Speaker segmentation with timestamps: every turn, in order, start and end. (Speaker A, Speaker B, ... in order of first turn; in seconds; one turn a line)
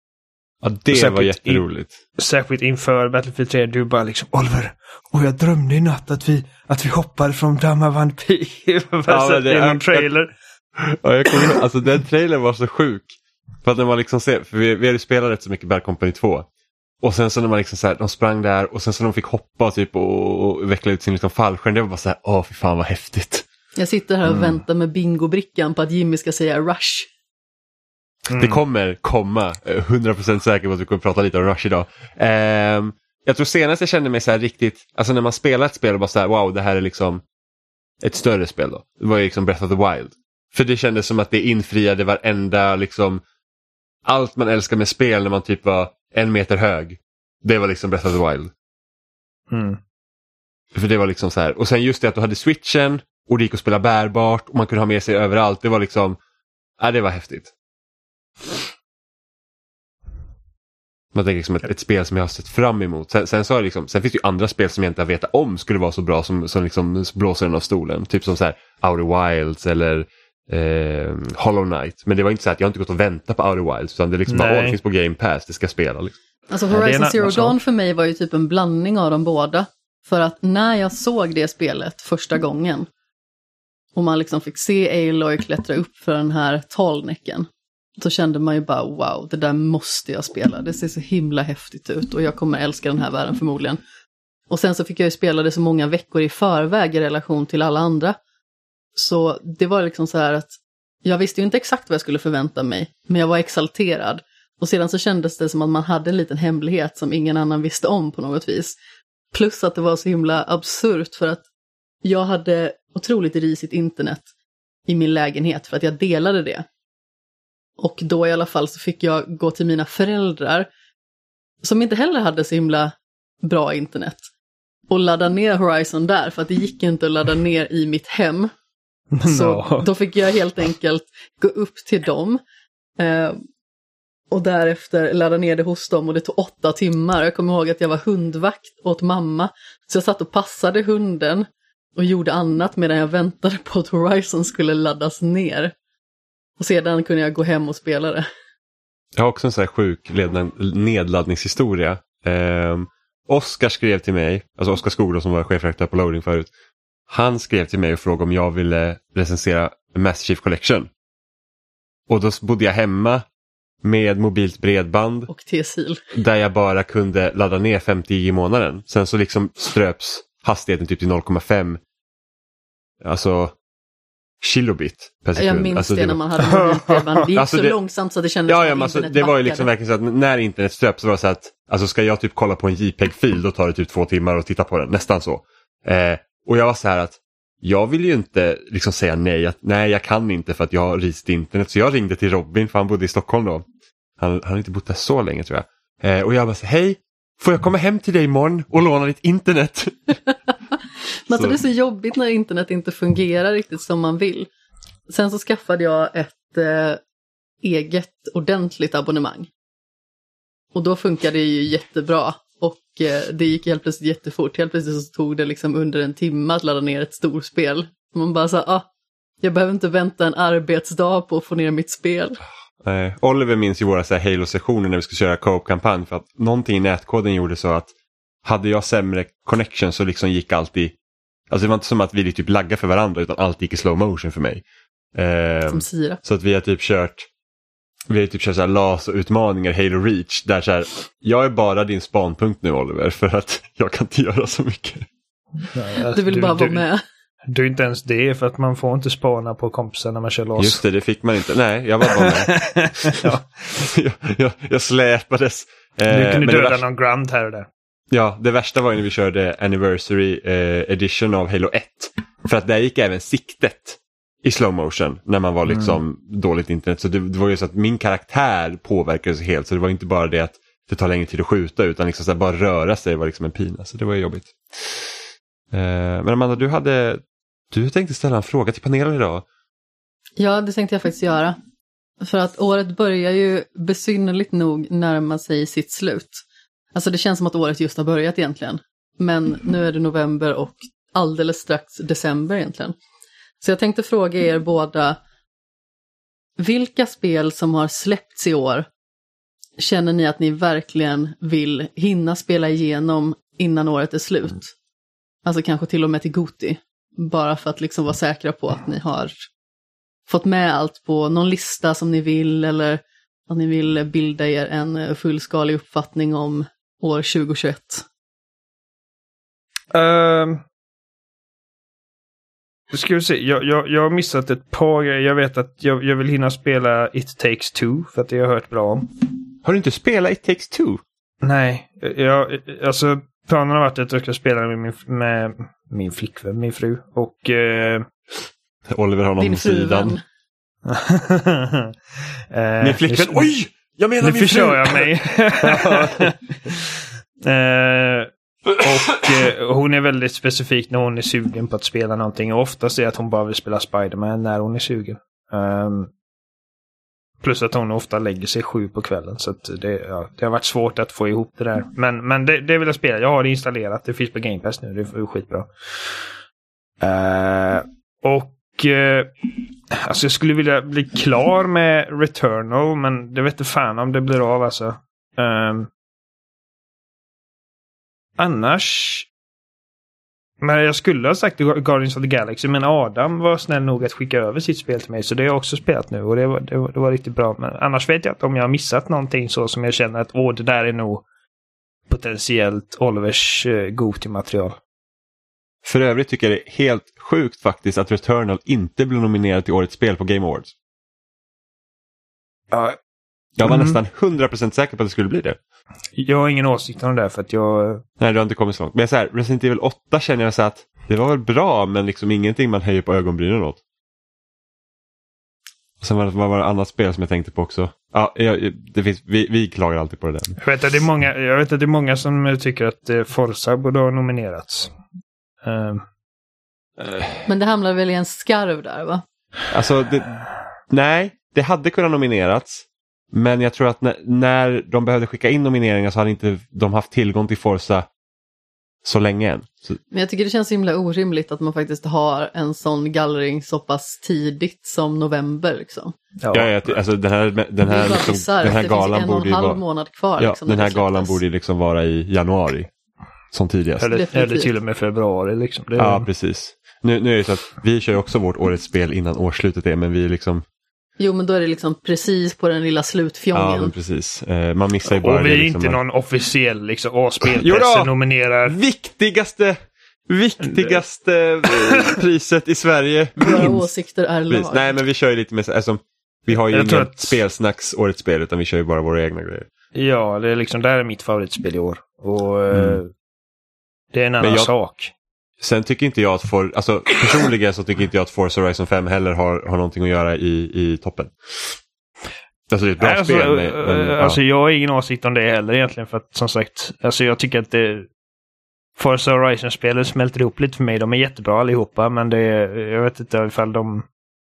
Speaker A: 0.6-1.9
Speaker B: 0.9-1.6
Speaker B: 2.2-10.3
Speaker A: 9.1-10.1
Speaker A: 10.8-13.1
Speaker A: 13.6-16.5
Speaker A: 17.0-23.4
Speaker C: 23.8-27.1
Speaker B: 24.3-24.6
Speaker B: 28.3-28.6
Speaker A: 28.3-37.2
Speaker A: 38.0-43.2
Speaker A: 44.0-48.5
Speaker B: 49.5-49.8
Speaker A: 50.7-56.2
Speaker A: 56.8-57.5
Speaker A: 61.1-76.2
Speaker B: 74.3-74.8
Speaker C: 76.5-82.9
Speaker B: 76.7-77.6
Speaker C: 84.0-93.8
Speaker C: 94.5-98.2
Speaker C: 99.0-100.5
Speaker C: 101.0-108.8
Speaker C: 109.3-111.5
Speaker C: 112.0-114.3
Speaker C: 114.9-116.7
Speaker C: 117.8-120.7
Speaker C: 121.6-124.2
Speaker C: 124.9-128.5
Speaker B: 129.1-129.9
Speaker C: 129.2-132.4
Speaker C: 133.0-133.4
Speaker C: 134.3-145.7
Speaker C: 146.6-148.2
Speaker A: 149.2-156.5
Speaker A: 157.1-160.9
Speaker A: 162.1-163.2
Speaker A: 163.8-165.3
Speaker C: 165.3-166.0
Speaker A: 166.1-171.8
Speaker A: 173.0-173.6
Speaker A: 174.4-176.2
Speaker C: 175.4-179.7
Speaker A: 177.4-177.8
Speaker A: 178.5-193.7
Speaker A: 194.2-200.2
Speaker C: 201.3-204.5
Speaker C: 205.1-207.0
Speaker C: 207.6-209.5
Speaker C: 210.7-218.9
Speaker C: 219.4-222.4
Speaker A: 222.8-227.9
Speaker A: 228.4-230.9
Speaker A: 231.5-234.6
Speaker A: 235.2-237.3
Speaker C: 235.7-236.2
Speaker A: 238.1-245.1
Speaker B: 245.7-246.8
Speaker C: 246.1-247.0
Speaker B: 247.5-250.8
Speaker A: 250.6-256.8
Speaker B: 252.1-253.7
Speaker B: 256.1-257.7
Speaker A: 258.1-275.1
Speaker B: 265.7-266.0
Speaker A: 275.7-279.4
Speaker C: 280.4-281.6
Speaker C: 282.2-286.4
Speaker C: 286.9-293.0
Speaker C: 293.6-295.2
Speaker C: 296.6-298.9
Speaker C: 299.8-304.7
Speaker C: 305.4-309.3
Speaker C: 310.3-318.1
Speaker B: 319.9-320.6
Speaker B: 322.9-329.1
Speaker A: 329.6-331.0
Speaker B: 331.4-338.1
Speaker A: 338.9-340.2
Speaker C: 339.4-340.2
Speaker B: 340.9-341.9
Speaker B: 342.5-343.5
Speaker A: 342.8-345.1
Speaker B: 344.2-356.1
Speaker A: 345.6-346.3
Speaker B: 357.4-366.3
Speaker B: 367.0-375.9
Speaker B: 378.4-379.3
Speaker B: 380.6-391.2
Speaker B: 392.1-394.8
Speaker A: 395.9-400.7
Speaker B: 402.7-403.0
Speaker A: 403.6-405.6
Speaker B: 403.6-404.0
Speaker B: 406.2-408.0
Speaker A: 408.2-413.8
Speaker A: 416.0-420.6
Speaker B: 420.6-424.9
Speaker B: 425.6-426.1
Speaker A: 427.0-427.3
Speaker C: 427.5-429.2
Speaker A: 429.7-430.3
Speaker A: 430.9-438.1
Speaker A: 439.0-440.0
Speaker C: 440.1-446.1
Speaker B: 446.4-446.9
Speaker A: 446.5-449.8
Speaker C: 447.8-451.4
Speaker A: 450.4-452.9
Speaker A: 453.5-454.2
Speaker B: 454.0-456.3
Speaker C: 454.1-454.7
Speaker A: 456.0-460.6
Speaker C: 461.2-463.9
Speaker A: 463.5-466.0
Speaker B: 465.1-468.8
Speaker A: 467.4-468.1
Speaker A: 468.7-469.8
Speaker A: 470.3-473.9
Speaker B: 471.7-472.2
Speaker C: 473.4-474.8
Speaker A: 474.5-479.7
Speaker B: 476.7-477.4
Speaker B: 479.9-483.1
Speaker A: 482.7-483.0
Speaker B: 484.1-485.1
Speaker A: 484.4-484.7
Speaker A: 485.6-491.8
Speaker A: 492.7-494.4
Speaker B: 493.0-498.1
Speaker B: 499.0-504.1